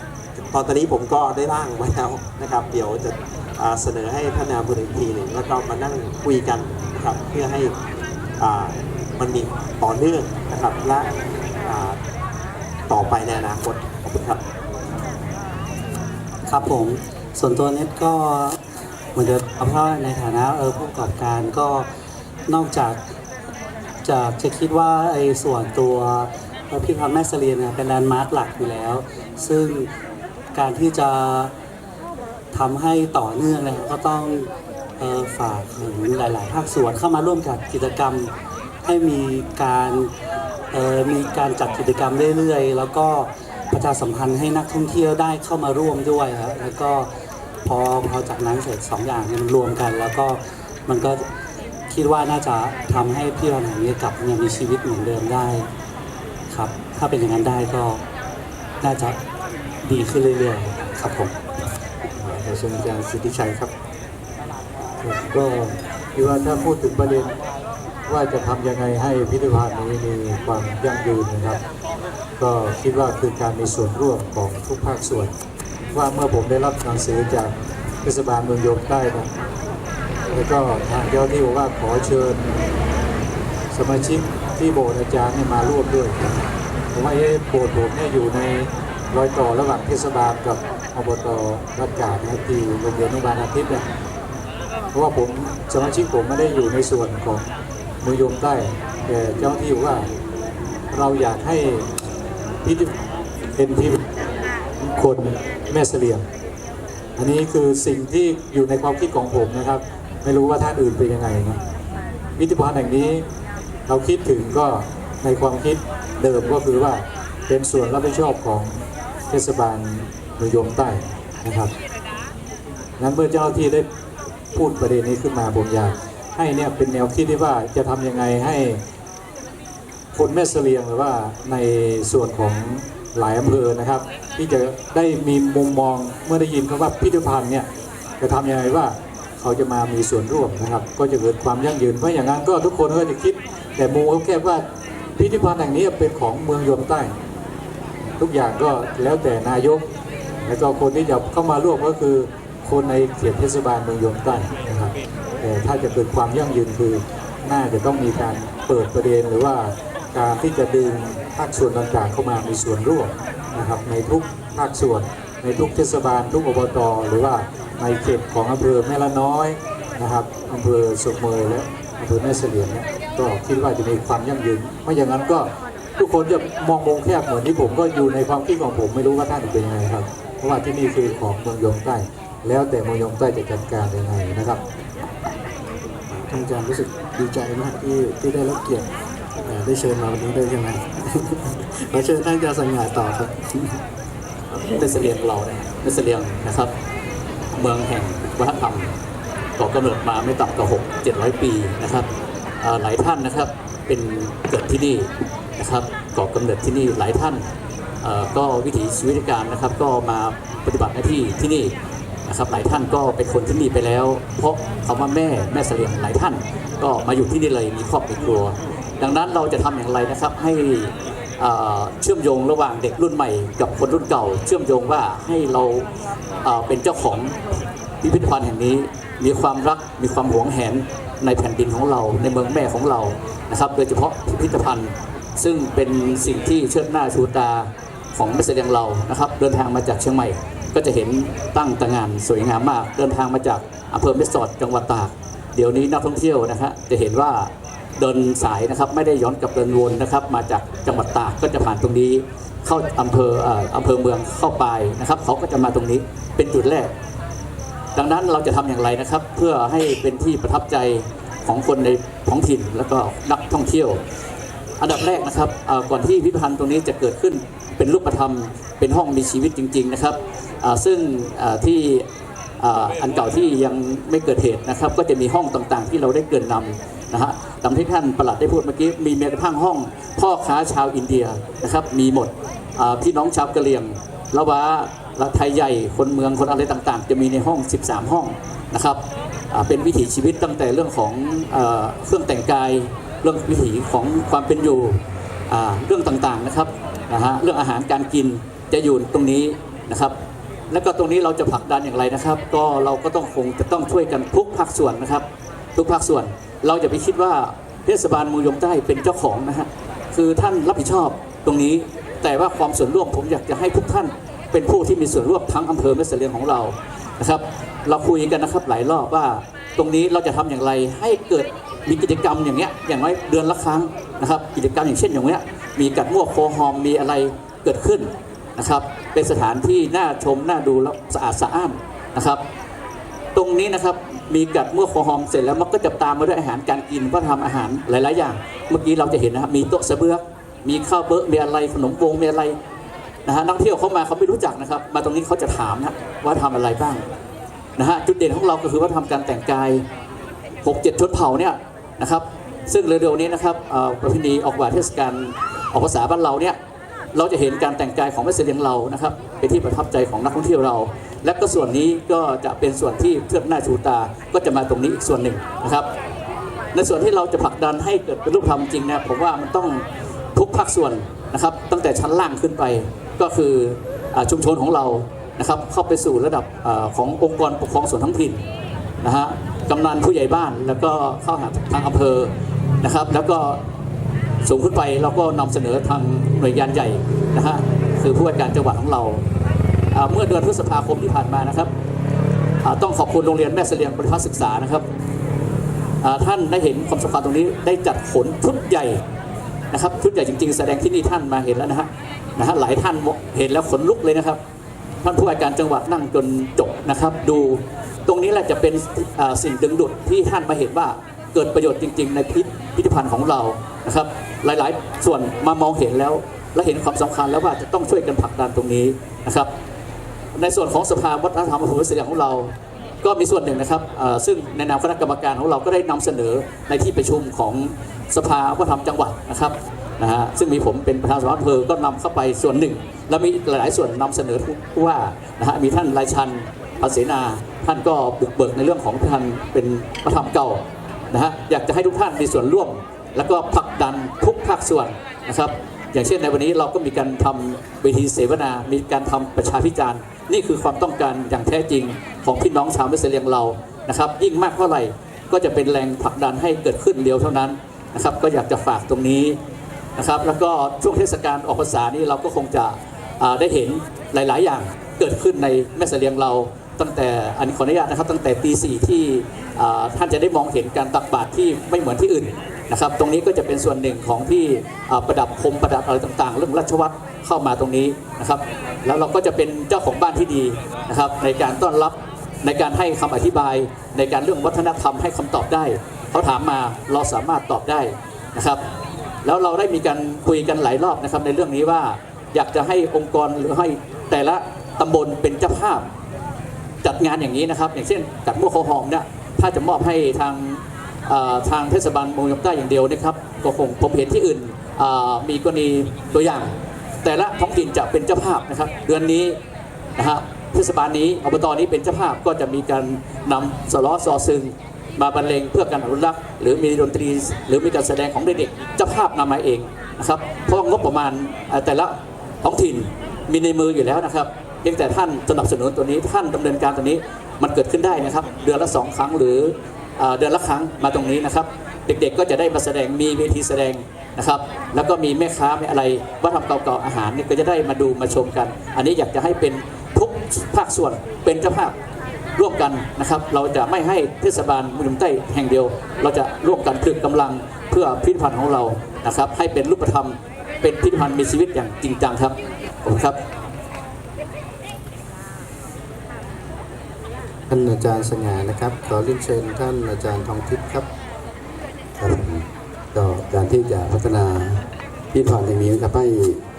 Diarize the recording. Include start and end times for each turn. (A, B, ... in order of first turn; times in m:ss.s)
0:00.4-0:07.7 A
0:08.4-0:11.1 A
0:11.6-0:12.0 A
0:12.9-0:14.4 A
0:16.5-0:18.6 B
0:19.1-0:21.9 B
0:22.5-0:23.0 B
0:24.0-0:29.9 B
0:30.5-0:31.5 B
0:32.5-0:38.3 B
0:38.8-0:40.1 B
0:40.7-0:47.1 B
0:47.6-0:51.2 B
0:51.9-0:55.7 B
0:56.5-0:58.0 B
0:58.8-0:59.2 B
0:59.8-1:01.3 B
1:02.2-1:03.7 C
1:05.3-1:07.3 D
1:06.2-1:06.8 B
1:08.1-1:11.6 D
1:08.1-1:08.7 B
1:10.1-1:10.8 B
1:12.4-1:15.3 D
1:12.4-1:15.1 B
1:15.9-1:17.5 D
1:16.0-1:16.5 B
1:18.0-1:19.3 D
1:20.3-1:22.5 D
1:23.7-1:26.2 D
1:24.0-1:24.8 B
1:26.9-1:33.8 D
1:31.0-1:31.3 B
1:32.0-1:32.5 B
1:34.9-1:37.5 D
1:38.0-1:40.1 D
1:40.9-1:41.9 D
1:42.6-1:42.9 D
1:43.6-1:44.0 D
1:44.8-1:46.3 D
1:47.2-1:51.6 D
1:52.4-1:53.2 D
1:53.9-2:01.7 D
2:03.0-2:03.8 D
2:04.5-2:08.8 D
2:10.1-2:17.7 D
2:18.2-2:24.6 D
2:25.2-2:27.1 D
2:28.2-2:29.9 D
2:30.4-3:04.6 D
3:06.1-3:08.9 C
3:09.4-3:13.8 C
3:14.5-3:16.7 E
3:17.5-3:18.9 E
3:19.6-3:22.1 E
3:22.6-3:27.4 E
3:28.0-3:31.7 E
3:32.3-3:45.9 E
3:46.4-3:47.4 E
3:48.0-4:16.9 E
4:17.9-4:24.0 E
4:24.8-4:32.0 E
4:32.6-5:00.1 E
5:00.7-5:05.2 E
5:05.8-5:32.4 E
5:33.3-5:42.6 E
5:43.2-5:47.0 E
5:47.8-5:49.8 E
5:50.6-5:56.6 E
5:57.1-6:05.9 E
6:06.7-6:09.8 E
6:10.3-6:18.4 E
6:19.0-6:22.3 E
6:22.8-6:23.6 E
6:24.4-6:29.2 E
6:29.9-6:31.7 E
6:32.6-6:34.8 E
6:36.0-6:39.0 E
6:39.7-6:44.4 E
6:45.0-6:59.5 E
7:00.3-7:39.4 E
7:40.0-8:08.6 E
8:09.2-8:15.8 E
8:16.8-8:29.4 E
8:30.0-9:01.7 E
9:02.4-9:13.2 E
9:17.5-9:20.9 C
9:22.0-9:26.4 F